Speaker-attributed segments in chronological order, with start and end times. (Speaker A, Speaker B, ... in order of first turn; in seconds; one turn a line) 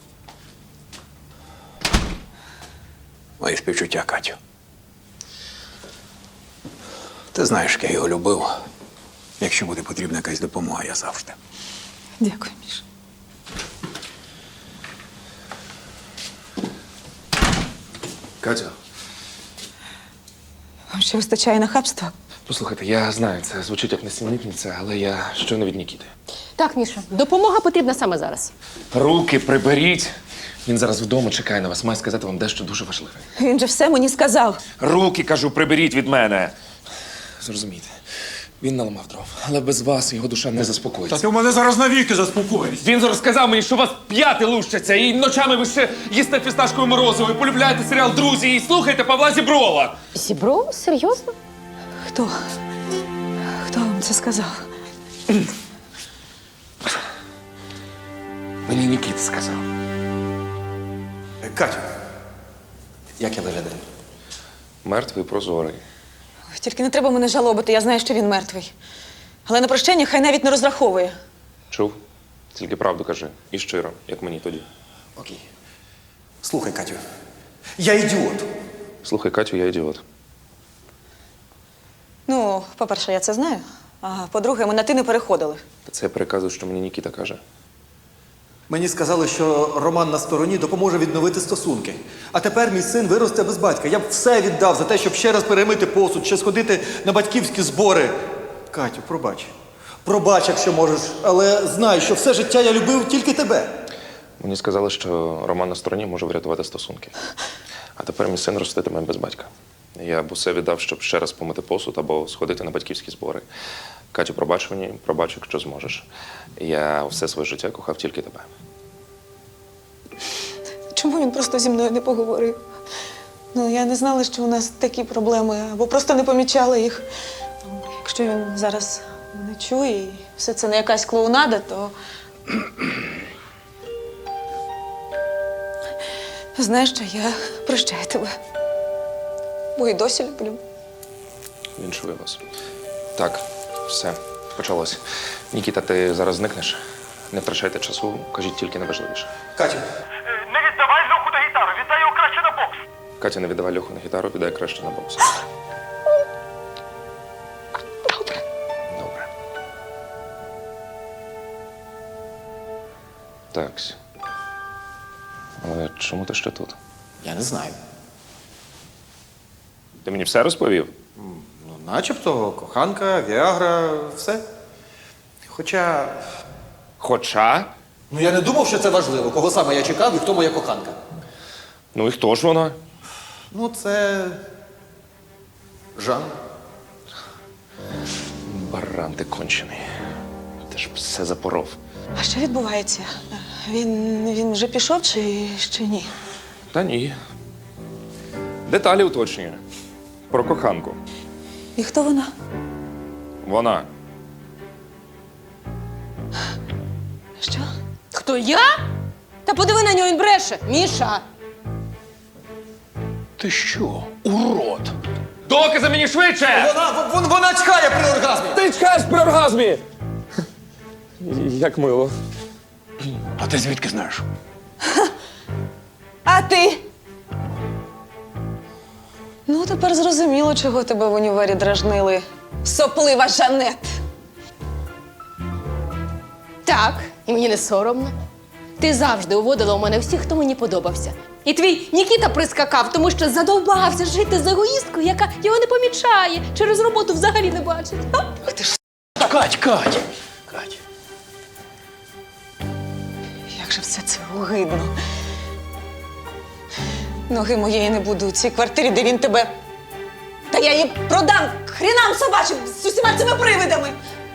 Speaker A: 3.4-4.4
Speaker A: 7.3-8.5
Speaker A: 9.4-11.3
Speaker B: 12.2-12.8
Speaker C: 18.4-18.7
Speaker B: 20.9-22.1
Speaker C: 22.5-26.1
Speaker D: 26.6-28.5
Speaker C: 28.9-30.1
Speaker C: 30.6-33.2
Speaker B: 33.4-34.6
Speaker C: 34.8-36.5
Speaker C: 37.4-37.9
Speaker C: 38.6-41.2
Speaker E: 41.1-42.7
Speaker C: 42.8-50.0
Speaker D: 50.1-51.3
Speaker B: 52.0-52.4
Speaker B: 53.5-54.6
Speaker C: 58.6-59.6
Speaker E: 61.4-61.8
Speaker E: 63.2-63.8
Speaker C: 64.8-65.8
Speaker B: 66.5-68.7
Speaker B: 69.5-71.2
Speaker C: 71.7-72.0
Speaker C: 72.5-74.6
Speaker E: 76.4-77.0
Speaker E: 77.8-78.5
Speaker C: 79.0-80.0
Speaker B: 82.3-85.6
Speaker C: 85.8-87.4
Speaker E: 88.7-98.1
Speaker E: 98.7-99.5
Speaker E: 100.0-103.7
Speaker C: 104.4-107.1
Speaker C: 108.0-113.5
Speaker C: 114.1-118.5
Speaker B: 120.9-122.6
Speaker B: 123.5-127.0
Speaker B: 127.7-131.9
Speaker B: 136.6-138.3
Speaker B: 139.8-140.6
Speaker C: 141.8-142.4
Speaker C: 143.2-145.0
Speaker C: 145.5-146.8
Speaker C: 147.3-149.3
Speaker E: 149.6-149.8
Speaker F: 150.4-152.8
Speaker C: 153.2-155.3
Speaker C: 158.9-159.3
Speaker C: 163.5-164.0
Speaker C: 165.6-166.8
Speaker E: 167.2-167.7
Speaker C: 170.0-170.9
Speaker E: 171.2-174.4
Speaker E: 175.4-176.2
Speaker C: 177.0-177.7
Speaker E: 178.1-181.0
Speaker C: 181.9-182.8
Speaker E: 183.5-184.4
Speaker E: 185.9-186.3
Speaker C: 188.4-189.8
Speaker C: 190.7-191.8
Speaker B: 192.1-196.1
Speaker C: 196.7-197.1
Speaker C: 198.7-199.6
Speaker C: 200.3-201.0
Speaker B: 201.8-202.3
Speaker C: 203.4-203.9
Speaker B: 207.4-207.7
Speaker D: 208.1-208.7
Speaker D: 209.4-211.2
Speaker A: 213.4-214.9
Speaker C: 215.4-216.7
Speaker E: 216.5-218.6
Speaker C: 218.5-219.8
Speaker C: 221.2-222.1
Speaker A: 223.4-224.2
Speaker B: 226.2-226.8
Speaker B: 229.5-234.0
Speaker D: 236.6-238.1
Speaker D: 238.8-248.3
Speaker E: 249.2-250.0
Speaker B: 253.5-254.9
Speaker B: 257.3-259.5
Speaker B: 260.5-264.0